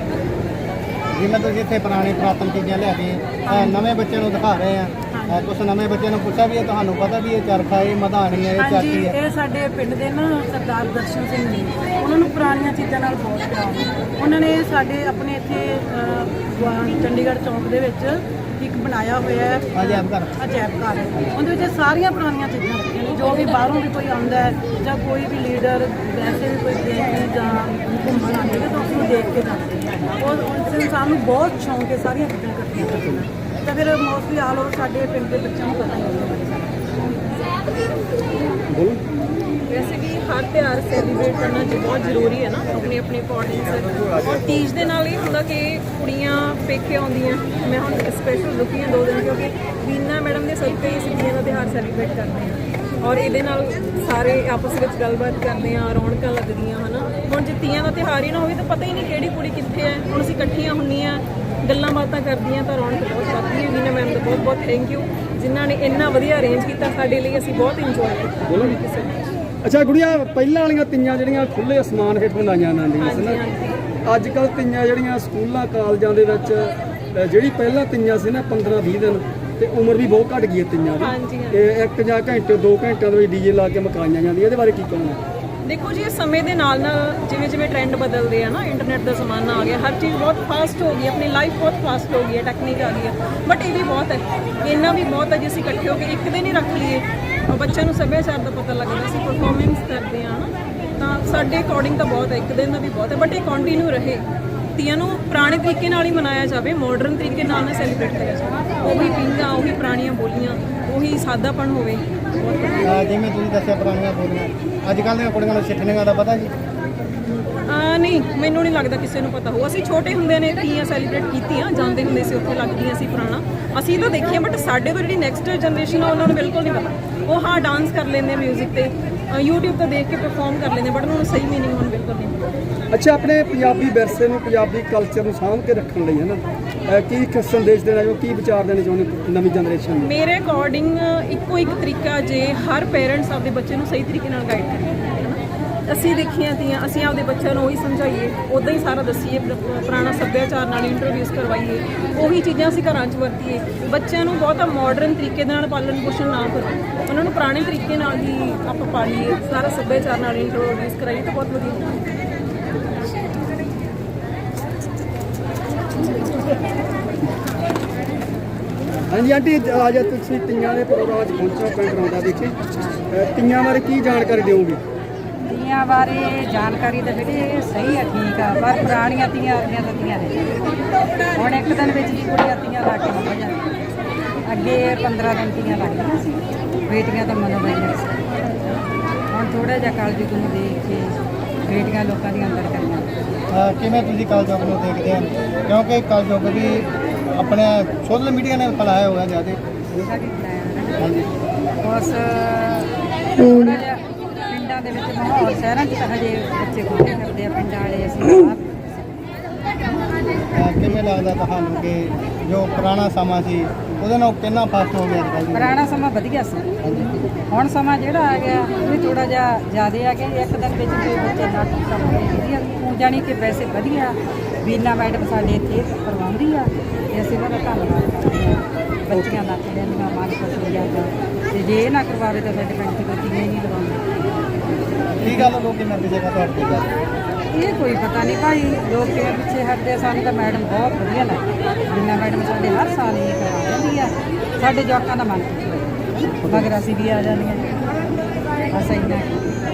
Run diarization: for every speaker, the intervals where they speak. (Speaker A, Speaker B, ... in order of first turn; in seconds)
Speaker A: 1.1-9.1, 19.8-20.4, 112.8-116.5, 193.5-199.6, 201.0-201.3, 210.6-215.8, 216.8-217.3, 235.2-236.9, 246.4-246.7
Speaker B: 3.5-3.8, 5.1-5.4, 8.6-37.0
Speaker C: 32.8-33.2, 38.7-39.0, 68.5-68.8, 69.6-73.4, 74.0-85.2, 132.9-140.1, 169.1-172.5, 173.1-174.8
Speaker D: 39.7-69.2, 73.0-73.8, 81.0-81.7, 85.7-104.2, 104.8-112.9, 117.7-132.5, 140.0-162.0
Speaker E: 175.5-180.6, 181.3-183.7, 184.5-186.4, 186.9-188.1, 189.3-191.2, 191.7-193.1, 199.9-201.0, 201.8-208.6, 215.5-216.7, 217.5-234.0, 235.2-235.5, 237.5-245.9, 246.5-247.7, 248.7-249.4